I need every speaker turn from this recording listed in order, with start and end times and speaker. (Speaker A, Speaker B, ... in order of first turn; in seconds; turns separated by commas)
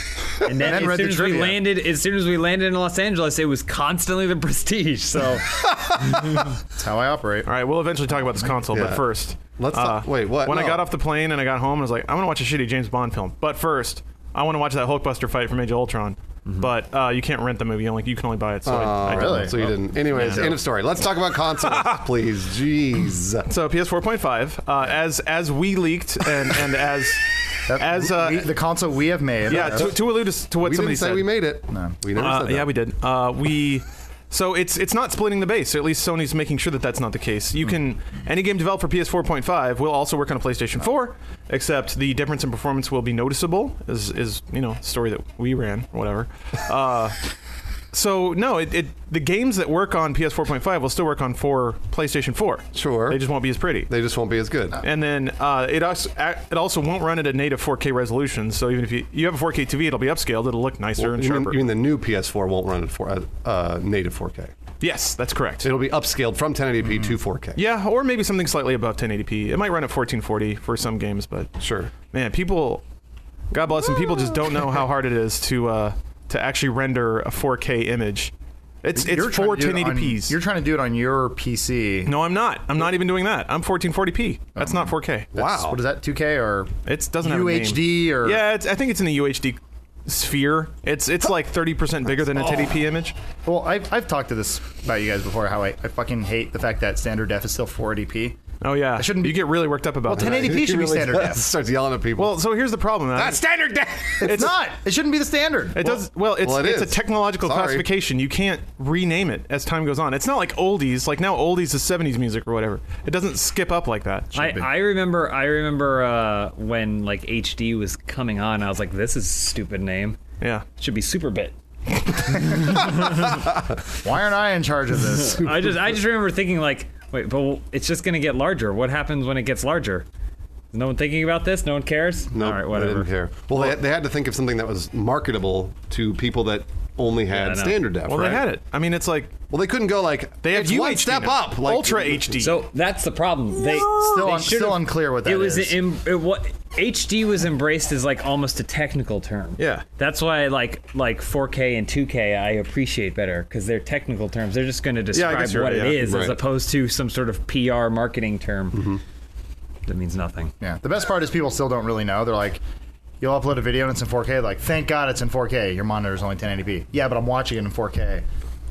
Speaker A: 0.3-1.6, Speaker B: 0.4-6.4, Speaker A: 6.8-7.5, Speaker C: 7.5-20.6, Speaker D: 8.7-9.0, Speaker D: 9.6-10.8, Speaker D: 18.6-23.5, Speaker A: 19.1-20.6, Speaker C: 21.6-22.0, Speaker C: 23.5-28.5, Speaker A: 27.7-29.9, Speaker C: 29.4-31.3, Speaker D: 29.5-29.9, Speaker D: 30.6-32.7, Speaker A: 31.7-31.9, Speaker C: 32.1-47.2, Speaker C: 47.9-53.9, Speaker D: 52.7-53.2, Speaker D: 53.9-54.8, Speaker C: 54.8-61.6, Speaker D: 61.0-64.5, Speaker C: 64.8-65.7, Speaker D: 65.6-67.6, Speaker C: 67.5-71.5, Speaker D: 71.6-71.9, Speaker C: 72.1-72.8, Speaker C: 73.5-78.3, Speaker C: 78.8-80.4, Speaker A: 78.9-82.1, Speaker C: 82.0-85.3, Speaker A: 84.6-88.4, Speaker D: 85.3-85.8, Speaker C: 86.8-93.2, Speaker D: 92.3-92.7, Speaker A: 93.5-98.4, Speaker C: 98.6-100.5, Speaker A: 99.0-99.5, Speaker A: 100.0-101.5, Speaker D: 100.1-102.4, Speaker C: 102.2-104.5, Speaker D: 103.1-104.5, Speaker A: 104.2-106.0, Speaker C: 105.7-114.3, Speaker D: 106.4-107.8, Speaker A: 114.3-114.7, Speaker B: 114.3-120.2, Speaker C: 120.4-120.6, Speaker B: 120.8-121.5, Speaker A: 122.4-123.0, Speaker B: 122.5-123.3, Speaker A: 124.0-125.7, Speaker B: 125.2-130.1, Speaker B: 130.7-133.1, Speaker D: 132.3-138.5, Speaker B: 137.3-137.8, Speaker C: 138.0-139.3, Speaker D: 139.5-142.5, Speaker C: 140.4-142.6, Speaker B: 142.4-158.9, Speaker C: 143.8-144.3, Speaker A: 143.8-145.8, Speaker C: 149.6-149.8, Speaker C: 155.1-156.1, Speaker D: 156.0-156.4, Speaker D: 158.7-159.0, Speaker B: 159.8-160.5, Speaker A: 160.6-162.6, Speaker A: 163.2-168.2